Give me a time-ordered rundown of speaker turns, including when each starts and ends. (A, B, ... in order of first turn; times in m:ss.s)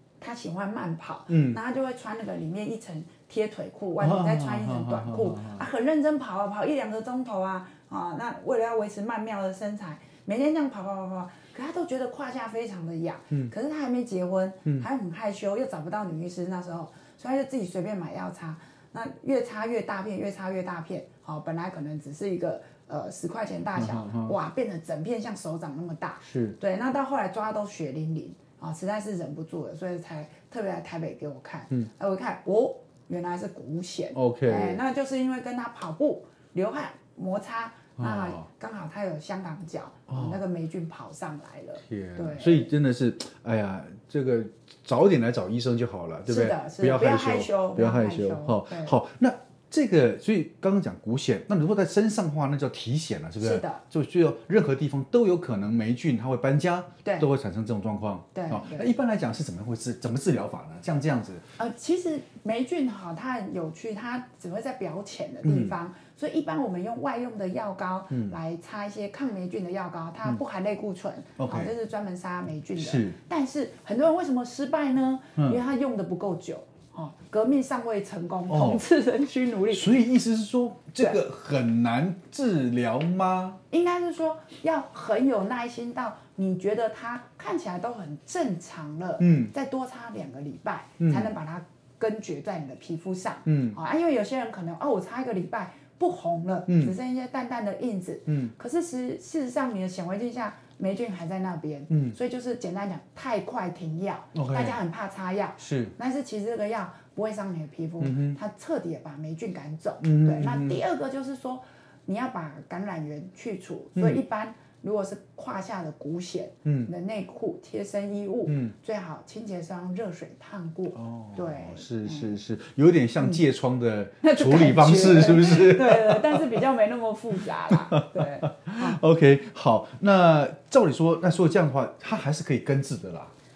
0:00.2-0:42.7 A
0:01.3-0:01.6 B
0:04.0-0:05.6 B
0:23.8-0:24.4 B
0:26.2-0:26.6 B
0:34.1-0:34.8 B
0:38.0-0:38.5 B
0:40.1-0:40.4 B
0:41.8-1:01.5 B
0:46.3-0:49.0 A
0:53.4-0:53.8 A
0:57.0-0:57.3 A
0:58.3-0:58.9 A
1:01.6-1:20.0 A
1:05.4-1:05.8 B
1:08.1-1:08.4 B
1:11.4-1:11.7 B
1:12.8-1:13.2 B
1:18.5-1:18.8 B
1:19.7-1:23.6 B
1:23.7-2:02.4 A
1:29.2-1:29.5 B
1:31.0-1:31.3 B
1:33.5-1:33.8 B
1:36.7-1:36.9 B
1:38.3-1:38.5 B
1:41.9-1:42.2 B
1:44.4-1:44.8 B
1:45.6-1:46.0 B
1:48.0-1:48.4 B
1:50.0-1:50.8 B
1:54.0-1:54.2 B
1:56.6-1:56.9 B
1:58.5-1:58.7 B
2:00.9-2:06.6 B
2:04.2-2:09.0 A
2:07.7-2:13.3 B